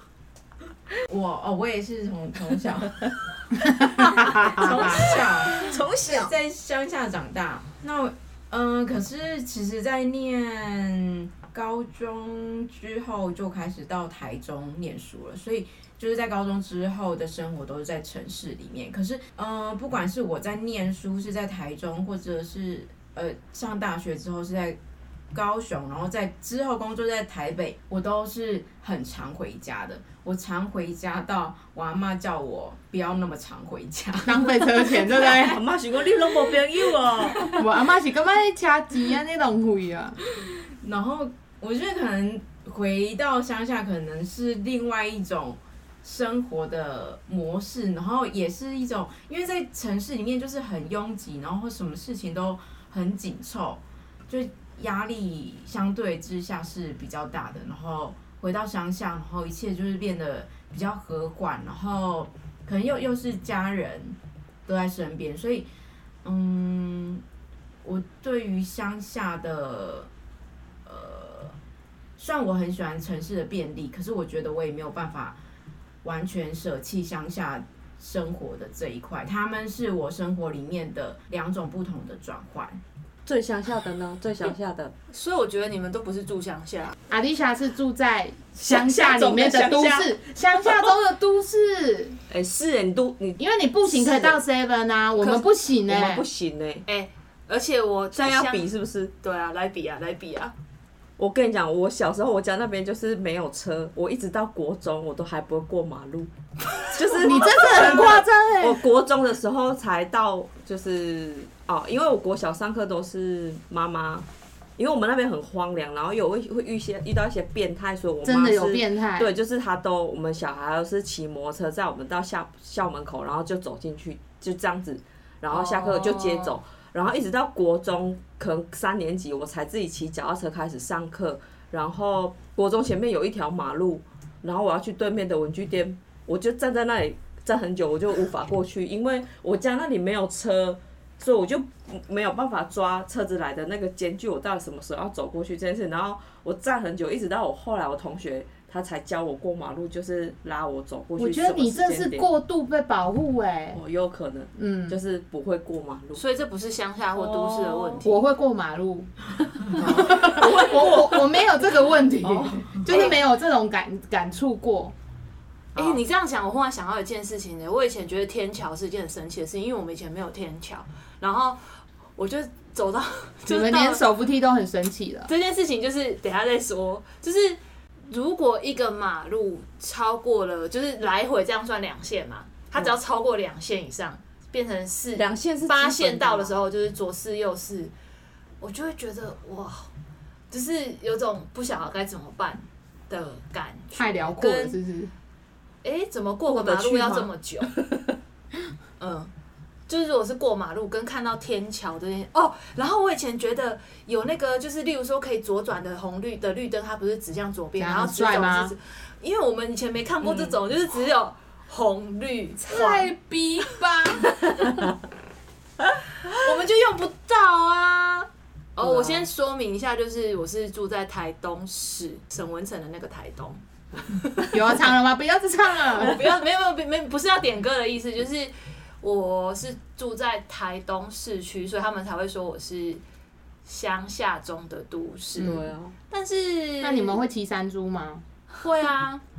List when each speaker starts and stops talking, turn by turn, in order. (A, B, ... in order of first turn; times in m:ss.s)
0:01.0-0:03.1 A
0:03.6-0:04.9 B
0:04.1-0:24.8 A
0:04.6-0:05.0 C
0:05.5-0:06.3 C
0:25.3-0:34.8 A
0:34.2-0:35.6 B
0:34.8-0:37.6 C
0:37.4-0:40.2 B
0:40.8-1:05.7 A
1:06.2-1:07.2 A
1:07.8-1:10.1 A
1:10.8-1:11.5 A
1:12.2-1:15.4 A
1:16.0-1:22.8 A
1:23.2-1:24.9 C
1:25.1-1:27.0 D
1:27.1-1:32.2 B
1:28.6-1:30.9 C
1:32.3-1:34.4 C
1:33.4-1:36.2 B
1:35.2-1:36.8 C
1:36.9-1:38.6 D
1:38.1-1:39.1 C
1:39.2-1:40.5 D
1:41.2-1:46.3 C
1:46.9-1:54.2 C
1:47.1-1:48.8 B
1:54.8-2:32.2 C
1:58.2-1:59.3 B
2:05.5-2:06.6 B
2:31.2-2:33.8 B
2:33.7-2:36.2 C
2:34.6-2:35.0 B
2:36.2-2:38.2 D
2:37.1-2:38.0 C
2:38.0-2:39.1 B
2:39.7-2:44.9 B
2:39.8-2:40.3 A
2:39.8-2:41.4 C
2:42.2-2:43.1 C
2:42.8-2:43.2 D
2:45.7-2:46.0 C
2:45.7-2:51.6 D
2:52.2-2:54.0 D
2:53.5-2:55.3 B
2:55.3-3:07.9 D
3:05.2-3:06.5 C
3:08.6-3:09.9 D
3:10.5-3:14.8 D
3:13.9-3:15.1 B
3:15.8-3:17.7 D
3:16.4-3:18.1 C
3:19.0-3:19.3 D
3:19.9-3:33.1 D
3:27.8-3:28.7 B
3:30.2-3:30.6 C
3:32.6-3:34.4 B
3:36.2-3:44.5 D
3:38.8-3:39.2 C
3:44.5-3:46.2 B
3:45.9-3:53.0 D
3:53.6-3:57.2 D
3:55.4-3:55.9 B
3:56.8-3:58.2 B
3:58.6-3:59.2 D